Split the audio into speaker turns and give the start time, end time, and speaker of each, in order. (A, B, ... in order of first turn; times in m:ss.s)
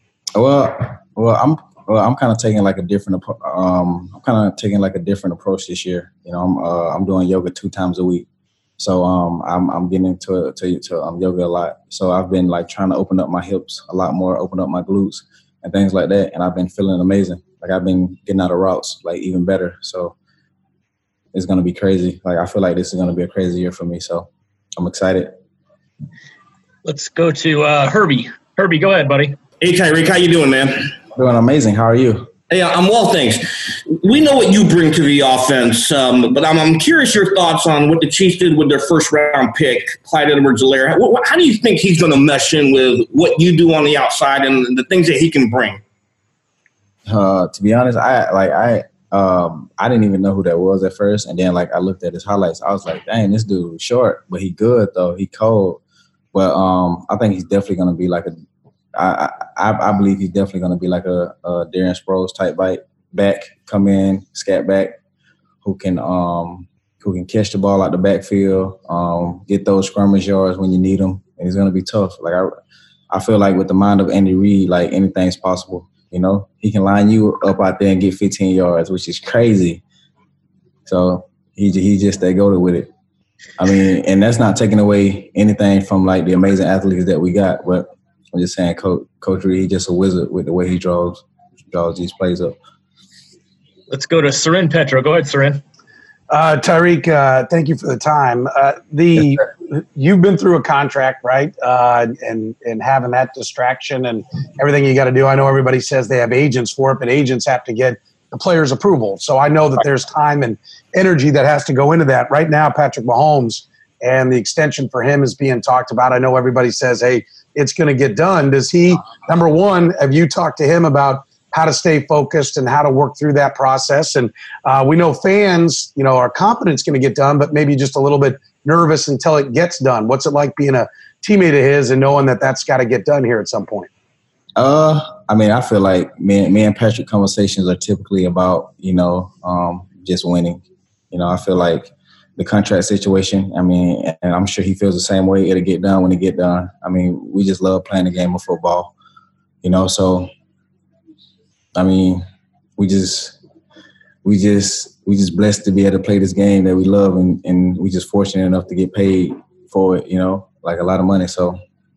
0:00.3-0:08.2 A
0:08.8-0:20.1 A
0:21.3-0:25.4 A
0:26.8-0:29.4 B
0:29.6-0:30.9 C
0:31.1-0:32.3 A
0:32.5-0:45.8 C
0:47.0-0:55.8 A
0:56.3-0:58.4 A
0:58.9-1:05.0 A
1:05.6-1:12.5 A
1:13.1-1:19.8 A
1:20.8-1:22.9 A
1:23.6-1:32.6 A
1:33.9-1:35.6 B
1:36.3-2:13.9 D
2:14.6-2:28.9 A
2:29.6-2:30.3 A
2:31.7-2:32.2 A
2:32.8-2:33.4 A
2:34.2-2:41.6 A